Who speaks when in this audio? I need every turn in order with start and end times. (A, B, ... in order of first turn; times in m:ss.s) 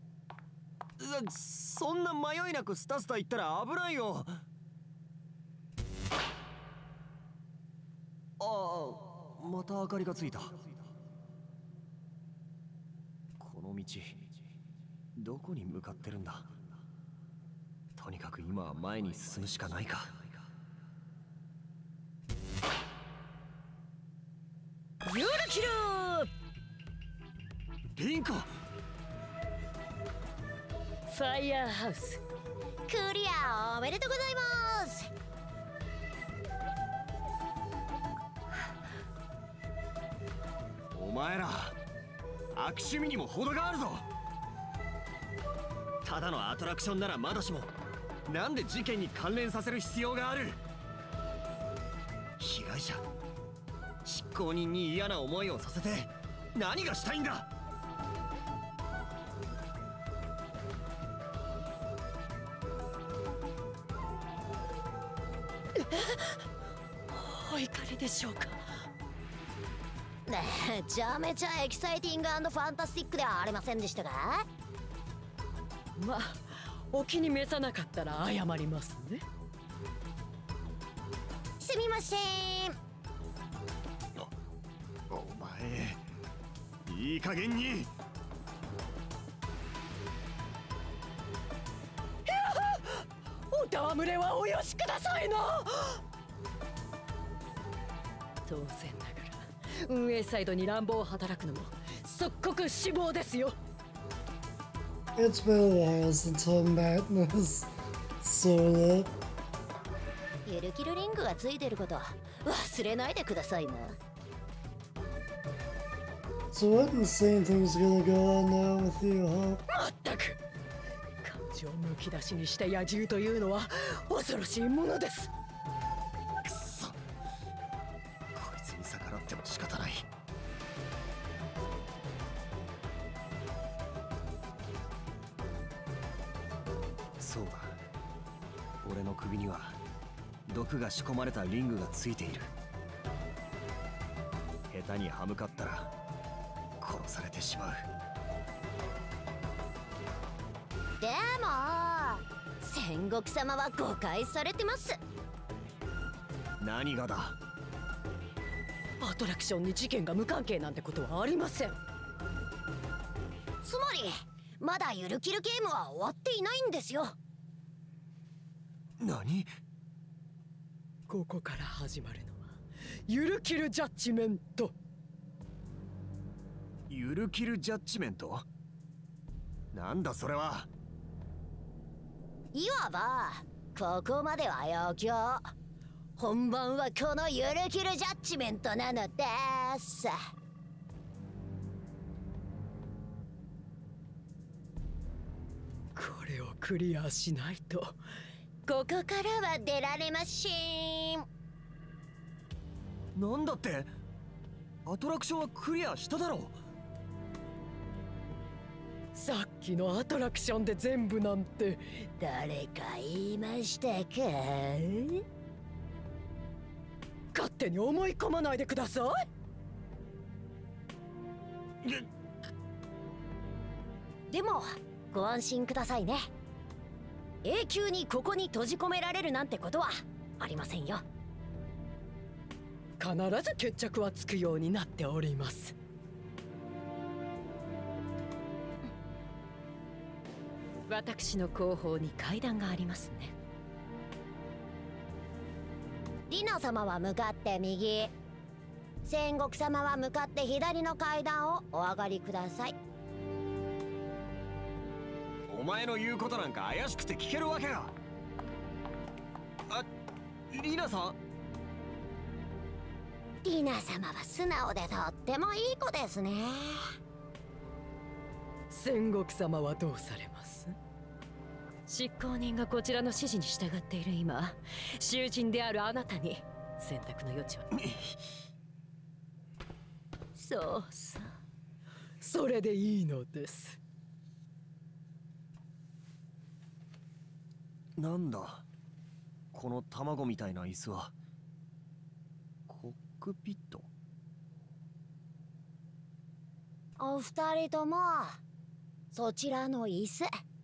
0:01.0-0:04.4 A
0:08.4-0:10.7 A
0:13.4-0:14.2 A
0:15.2-0:16.5 A
0:18.0-0:20.4 A
0:25.0-0:26.3 B
0:27.9-0:28.5 A
0:31.1-0:32.2 B
0:32.9-0:35.1 C
0:40.9-0:41.8 A
0:42.5-0:44.0 A
0:46.0-0:47.7 A
0:48.3-0:50.6 A
0:52.4-0:53.0 A
0:54.0-0:57.5 A
1:05.8-1:06.4 B
1:07.1-1:08.8 B
1:10.3-1:14.4 C
1:16.0-1:19.2 B
1:21.6-1:22.8 C
1:25.1-1:26.0 A
1:26.8-1:27.9 A
1:32.2-1:36.0 B
1:38.4-1:43.6 B
1:45.1-1:49.1 D
1:50.4-1:54.0 C
1:56.5-1:59.6 D
1:59.7-2:00.4 B
2:01.2-2:05.3 B
2:06.4-2:07.0 A
2:08.3-2:10.0 A
2:17.2-2:17.8 A
2:18.8-2:19.8 A
2:20.5-2:22.5 A
2:24.7-2:25.9 A
2:26.8-2:27.9 A
2:31.0-2:35.0 C
2:36.6-2:37.4 A
2:39.0-2:41.8 B
2:43.6-2:47.1 C
2:49.0-2:49.5 A
2:51.1-2:54.8 B
2:56.9-2:58.4 A
2:59.7-3:00.7 A
3:02.5-3:05.5 C
3:06.2-3:10.1 C
3:15.9-3:18.0 B
3:18.7-3:21.2 C
3:23.1-3:23.9 A
3:24.8-3:26.6 A
3:29.1-3:32.1 B
3:32.2-3:35.2 C
3:37.3-3:39.2 B
3:44.3-3:46.3 C
3:47.4-3:51.0 C
3:53.0-3:55.7 B
4:00.9-4:03.3 B
4:06.3-4:08.1 C
4:09.0-4:12.8 C
4:15.5-4:17.9 A
4:20.5-4:21.2 A
4:23.4-4:26.9 C
4:28.7-4:30.8 B
4:31.9-4:37.7 B
4:37.7-4:38.2 A
4:40.4-4:41.2 B
4:42.2-4:43.8 B
4:48.0-4:48.6 A
4:49.5-4:51.1 A
4:52.7-4:53.9 A
4:57.0-4:58.4 C
4:59.1-5:00.3 C